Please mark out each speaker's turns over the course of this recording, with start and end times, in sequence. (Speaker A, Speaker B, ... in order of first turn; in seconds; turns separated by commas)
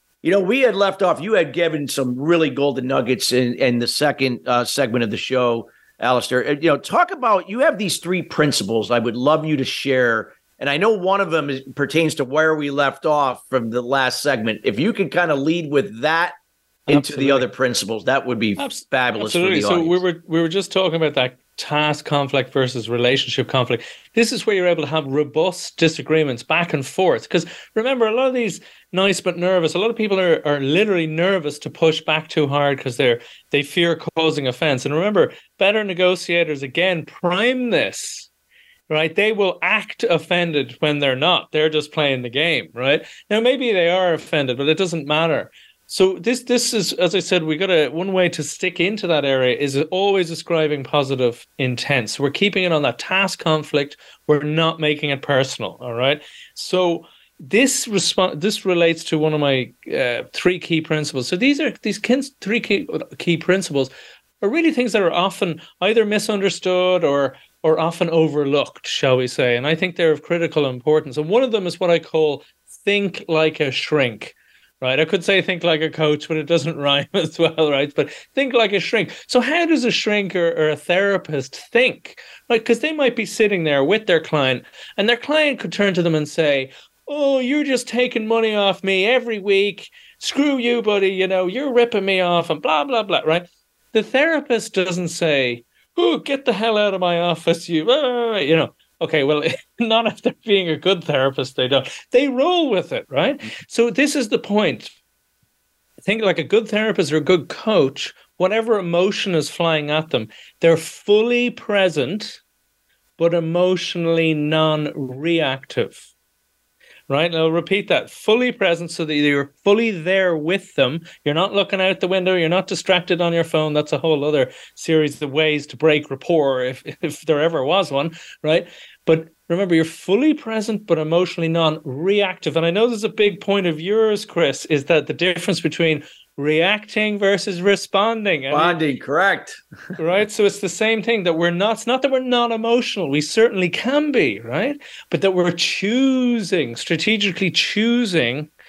Speaker A: 0.2-16.4, Speaker B: 16.9-17.5, Speaker A: 16.9-20.0, Speaker B: 18.6-38.3, Speaker B: 38.9-105.0, Speaker B: 106.0-112.4, Speaker B: 113.2-116.1, Speaker B: 117.1-138.8, Speaker A: 138.5-139.6, Speaker B: 140.0-148.5